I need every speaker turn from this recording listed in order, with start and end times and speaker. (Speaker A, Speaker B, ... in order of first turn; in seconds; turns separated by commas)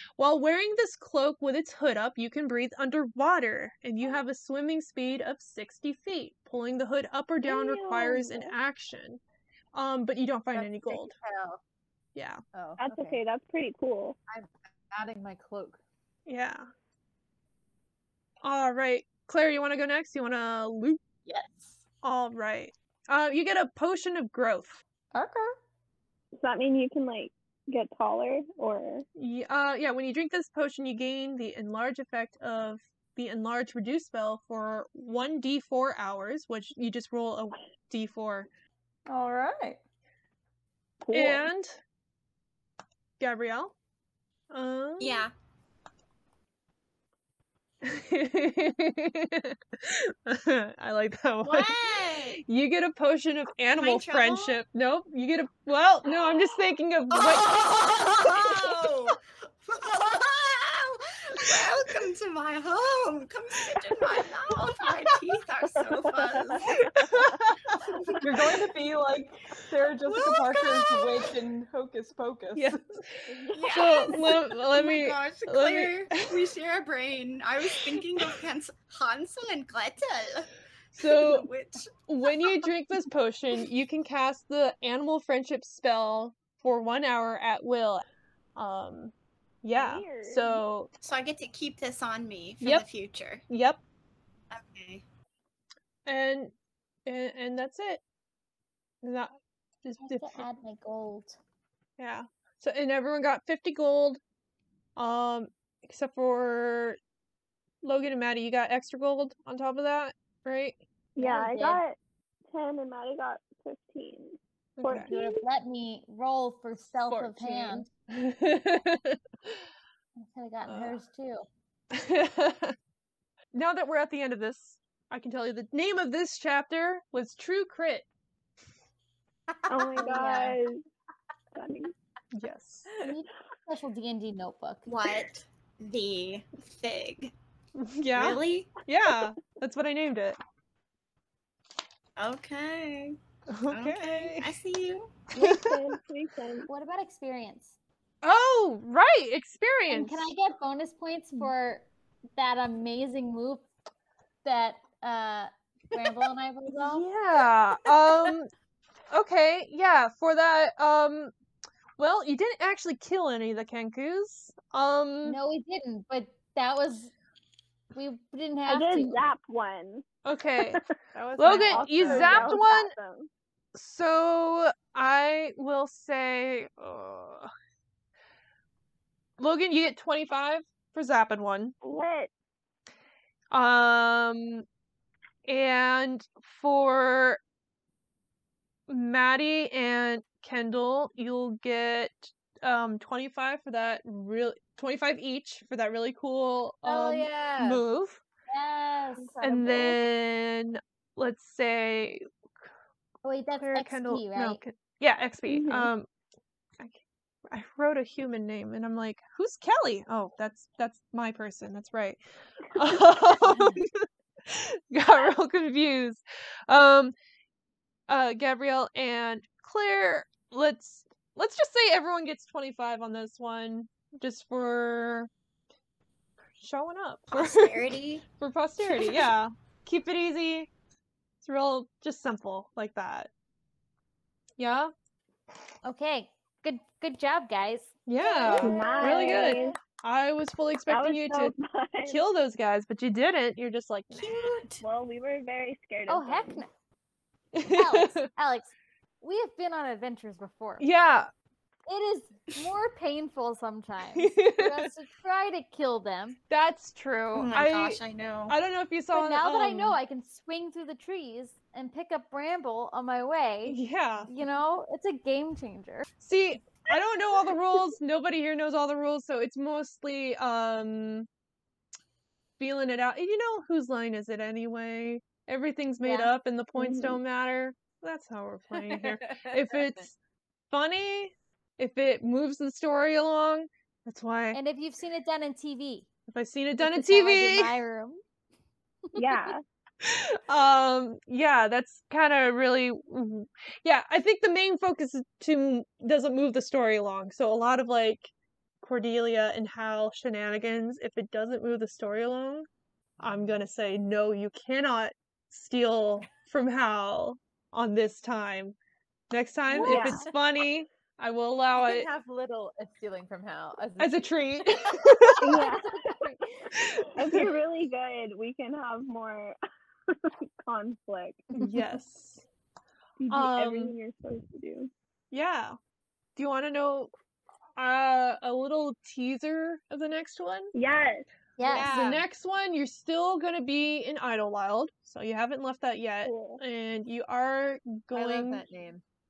Speaker A: 0.2-9.2, Speaker B: 7.5-8.5, Speaker A: 9.7-11.2, Speaker C: 10.5-11.6, Speaker A: 12.1-12.4, Speaker C: 12.5-13.2, Speaker B: 12.8-14.2, Speaker C: 14.3-15.8, Speaker A: 16.2-16.7, Speaker A: 18.4-21.0, Speaker C: 21.2-21.8, Speaker A: 22.0-24.8, Speaker D: 25.1-25.5, Speaker B: 26.4-29.0, Speaker A: 29.1-38.5, Speaker D: 39.1-39.8, Speaker B: 41.0-41.5, Speaker A: 41.1-41.8, Speaker A: 43.2-43.7, Speaker A: 44.5-45.3, Speaker E: 45.0-45.3, Speaker A: 47.8-51.8, Speaker E: 51.4-52.4, Speaker A: 52.4-58.3, Speaker E: 53.8-54.6, Speaker E: 57.1-66.9, Speaker B: 66.2-66.9, Speaker A: 66.6-68.2, Speaker D: 68.2-72.8, Speaker A: 70.0-71.0, Speaker A: 72.5-76.3, Speaker B: 73.3-73.7, Speaker E: 73.5-82.6, Speaker A: 80.9-81.5, Speaker A: 82.1-88.0, Speaker A: 88.5-90.9, Speaker B: 89.7-90.6, Speaker E: 91.0-93.4, Speaker A: 93.5-93.8, Speaker E: 94.5-95.0, Speaker A: 96.0-96.5, Speaker A: 97.0-98.0, Speaker A: 99.0-100.5, Speaker F: 100.0-101.4, Speaker A: 102.0-104.2, Speaker A: 105.0-107.0, Speaker A: 107.8-110.8, Speaker B: 111.2-112.0, Speaker F: 111.2-111.8, Speaker B: 112.5-115.4, Speaker A: 114.8-115.1, Speaker F: 115.1-117.9, Speaker A: 117.0-119.6, Speaker F: 120.2-121.4, Speaker A: 120.7-121.0, Speaker A: 121.9-122.7, Speaker A: 123.5-128.1, Speaker B: 129.7-130.8, Speaker F: 129.9-130.6, Speaker B: 131.5-131.9, Speaker A: 132.3-132.9, Speaker F: 133.0-134.9, Speaker E: 134.9-137.3, Speaker A: 137.8-140.4, Speaker E: 138.1-138.7, Speaker E: 142.2-143.2, Speaker A: 143.5-144.5, Speaker E: 143.7-145.2, Speaker B: 145.3-146.7, Speaker A: 145.4-145.8, Speaker F: 146.7-147.8, Speaker A: 148.2-150.3, Speaker F: 149.9-153.7, Speaker F: 154.4-157.1, Speaker A: 156.7-158.5, Speaker A: 159.1-161.3, Speaker A: 162.0-165.4, Speaker F: 165.2-167.1, Speaker F: 167.9-169.2, Speaker B: 168.7-170.0, Speaker A: 170.2-170.8, Speaker C: 171.1-172.6, Speaker A: 171.4-172.9, Speaker B: 171.4-173.3, Speaker A: 173.7-177.5, Speaker A: 179.4-181.7, Speaker B: 181.8-182.3, Speaker A: 183.5-184.6, Speaker A: 185.4-187.4, Speaker A: 188.9-198.2, Speaker C: 196.8-197.8, Speaker F: 198.5-199.4, Speaker B: 199.2-199.9, Speaker A: 199.4-202.2, Speaker F: 203.2-204.6, Speaker A: 203.6-206.1, Speaker B: 205.5-205.9, Speaker A: 206.8-212.2, Speaker A: 212.7-217.1, Speaker A: 218.1-225.3, Speaker A: 226.6-230.7, Speaker E: 227.3-228.2, Speaker A: 231.4-233.3, Speaker A: 234.6-234.9, Speaker F: 235.8-239.7, Speaker A: 238.1-241.5, Speaker B: 238.6-239.7, Speaker B: 240.9-242.2, Speaker A: 242.1-244.7, Speaker E: 244.1-244.8, Speaker B: 244.8-246.6, Speaker F: 246.1-246.7, Speaker A: 247.5-248.3, Speaker F: 247.6-250.8, Speaker A: 250.8-251.3, Speaker F: 251.9-256.4, Speaker A: 254.1-254.9, Speaker A: 256.5-260.0, Speaker E: 257.3-258.5, Speaker F: 259.1-266.1, Speaker A: 263.6-264.3, Speaker A: 266.2-271.3, Speaker A: 272.6-280.1, Speaker F: 276.0-276.3, Speaker B: 276.8-277.2, Speaker C: 278.8-280.1, Speaker A: 280.7-284.6, Speaker F: 284.5-286.1, Speaker A: 286.3-287.7, Speaker F: 286.8-288.2, Speaker F: 289.1-289.5, Speaker B: 289.1-289.6, Speaker A: 290.0-302.6, Speaker A: 303.2-308.8, Speaker A: 309.3-312.1, Speaker C: 309.8-310.2, Speaker B: 309.8-310.2, Speaker F: 309.9-310.1, Speaker C: 311.7-314.3, Speaker A: 314.0-315.6, Speaker B: 315.4-316.3, Speaker F: 315.6-316.4, Speaker A: 316.7-317.5, Speaker B: 317.1-319.6, Speaker B: 320.1-321.5, Speaker A: 321.5-322.4, Speaker B: 323.2-324.9, Speaker A: 323.3-323.9, Speaker A: 325.3-325.8, Speaker A: 326.4-327.1, Speaker A: 327.8-330.7, Speaker B: 330.7-331.3, Speaker F: 331.6-331.9, Speaker C: 331.6-332.2, Speaker A: 331.6-338.6, Speaker B: 336.2-336.6, Speaker C: 338.1-339.0